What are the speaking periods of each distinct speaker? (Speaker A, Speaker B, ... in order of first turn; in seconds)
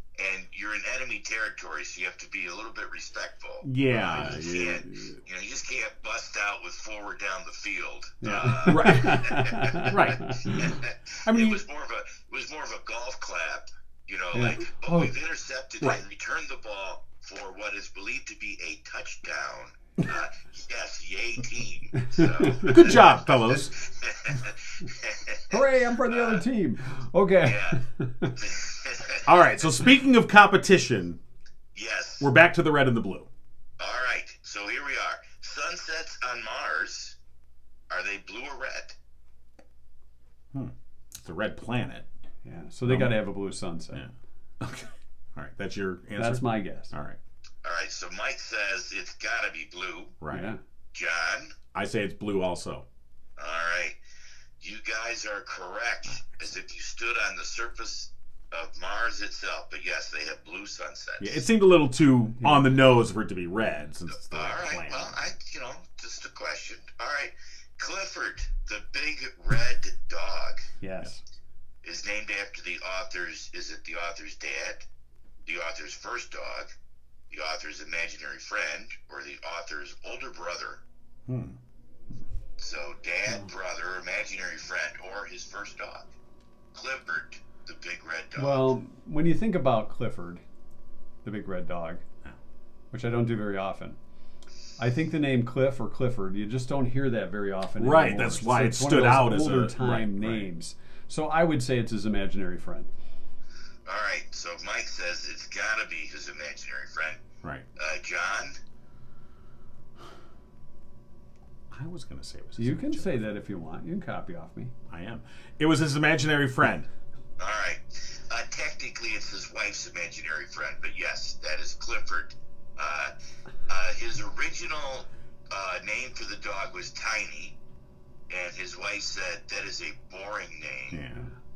Speaker A: 0.2-26.4, 27.4-27.8, 28.4-29.4, 31.7-32.3, 33.8-37.2, 37.9-39.0, 47.6-50.2, 50.9-51.6, 53.4-54.0, 54.6-61.4, 64.3-70.7, 71.8-74.9, 75.5-76.7, 77.3-80.8, 82.6-86.1, 86.7-88.7, 103.8-107.2, 107.8-108.6, 117.4-123.1, 123.7-127.5, 128.3-131.0
Speaker B: 3.6-5.2, 8.7-9.3, 9.8-10.3, 11.2-11.6, 22.6-23.7, 29.2-31.2, 32.2-33.3, 40.5-42.1, 42.9-43.2, 43.9-47.2, 50.2-50.5, 51.7-52.9, 56.0-56.6, 61.2-65.2, 81.3-81.6, 97.8-100.5, 111.7-113.2, 114.9-116.9, 130.9-131.3
Speaker C: 8.2-10.7, 14.3-15.1, 22.0-22.9, 25.5-28.4, 42.4-44.1, 46.2-46.9, 50.3-50.6, 62.4-62.8, 70.8-71.2, 88.4-90.4, 91.2-92.0, 92.9-94.0, 94.8-102.9, 112.6-114.7